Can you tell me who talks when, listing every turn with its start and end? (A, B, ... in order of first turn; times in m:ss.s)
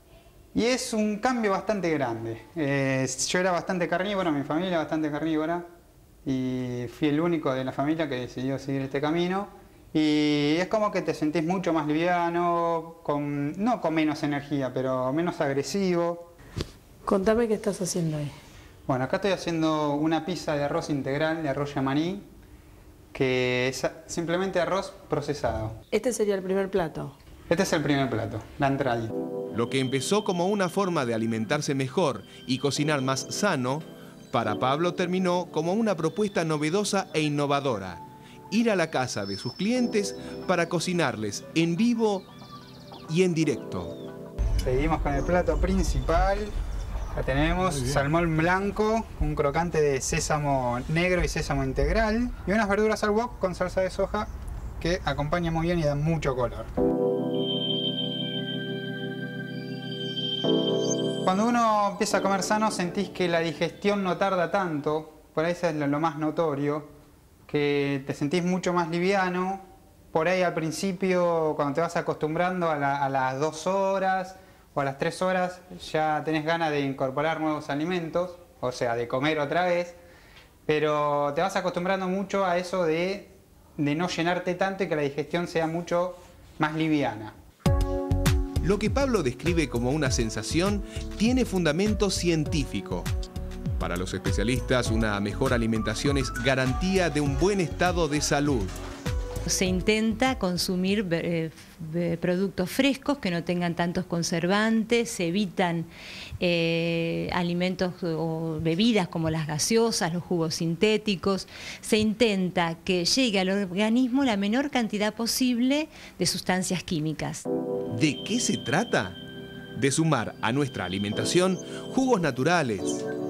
0:00.5-0:05.7 A
0:06.2-0:16.3 A
0:17.0-0:18.3 B
0:18.9-0:22.2 A
0:23.1-0:25.7 A
0:25.9-0:27.1 B
0:27.5-0:29.1 A
0:29.5-0:42.3 C
0:43.1-0:44.0 C
0:44.6-0:46.5 A
0:47.1-0:56.7 A
1:01.2-1:06.9 A
1:07.5-1:20.0 A
1:20.7-1:27.3 A
1:28.6-1:33.1 C
1:33.8-1:38.7 C
1:39.4-1:57.4 D
1:57.9-1:59.2 C
1:59.8-2:03.0 C